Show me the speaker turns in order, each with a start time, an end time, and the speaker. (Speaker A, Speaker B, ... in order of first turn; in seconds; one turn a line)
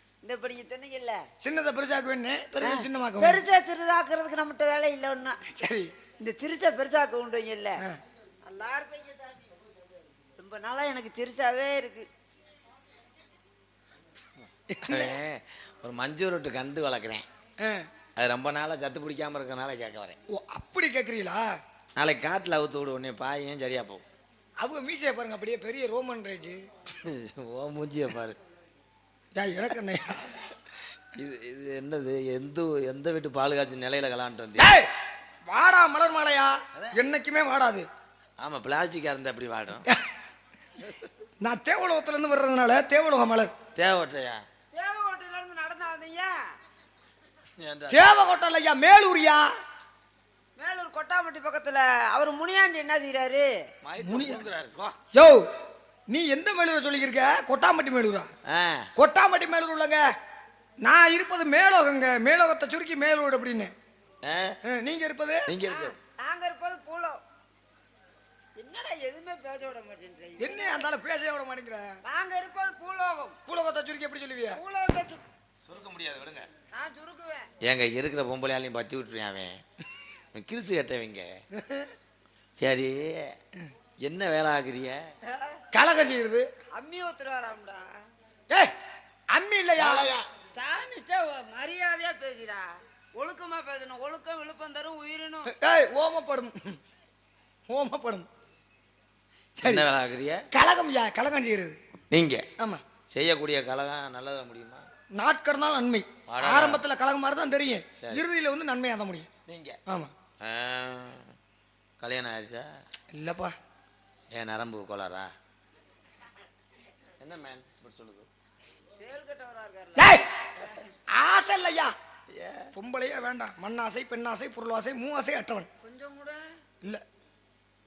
Speaker A: 0.2-1.2
Speaker B: 1.4-3.4
Speaker A: 2.6-5.4
Speaker B: 5.5-5.9
Speaker A: 6.2-7.8
Speaker A: 8.5-9.5
Speaker A: 10.4-12.1
Speaker B: 14.7-15.2
Speaker C: 14.9-17.3
Speaker C: 18.2-20.2
Speaker B: 20.3-21.4
Speaker C: 22.0-24.0
Speaker B: 24.6-26.6
Speaker C: 27.0-28.4
Speaker B: 29.4-30.4
Speaker C: 31.2-34.7
Speaker B: 34.6-34.9
Speaker B: 35.5-37.9
Speaker C: 38.4-39.9
Speaker B: 41.4-43.5
Speaker C: 43.8-44.4
Speaker A: 44.7-46.3
Speaker C: 47.6-48.1
Speaker B: 47.9-49.5
Speaker A: 50.6-53.5
Speaker C: 53.8-55.0
Speaker B: 54.0-54.4
Speaker B: 55.1-55.5
Speaker B: 56.1-58.3
Speaker C: 58.5-58.9
Speaker B: 59.0-60.0
Speaker B: 60.8-63.7
Speaker C: 64.2-64.6
Speaker B: 64.7-65.5
Speaker C: 65.5-66.0
Speaker A: 65.7-67.2
Speaker A: 68.6-70.9
Speaker B: 70.4-72.0
Speaker A: 72.0-73.4
Speaker B: 73.5-74.6
Speaker A: 74.5-75.2
Speaker C: 75.7-76.5
Speaker A: 76.7-77.5
Speaker C: 77.6-79.6
Speaker C: 80.3-81.4
Speaker B: 81.6-81.9
Speaker C: 82.6-83.3
Speaker C: 84.0-85.0
Speaker A: 85.3-85.6
Speaker B: 85.7-86.5
Speaker A: 86.7-87.9
Speaker B: 89.3-90.1
Speaker C: 89.8-90.3
Speaker A: 90.5-95.5
Speaker B: 95.5-96.8
Speaker B: 97.7-98.3
Speaker B: 99.6-99.9
Speaker C: 99.6-100.5
Speaker B: 100.5-101.8
Speaker C: 102.1-102.5
Speaker C: 103.1-104.9
Speaker B: 105.2-109.3
Speaker C: 106.3-106.8
Speaker C: 109.5-109.8
Speaker B: 109.9-110.1
Speaker C: 110.4-111.3
Speaker C: 112.0-112.7
Speaker B: 113.1-113.5
Speaker C: 114.3-115.3
Speaker C: 117.2-118.3
Speaker A: 119.0-120.9
Speaker B: 120.0-120.3
Speaker B: 121.1-121.9
Speaker C: 122.3-122.7
Speaker B: 122.7-125.7
Speaker A: 125.8-126.4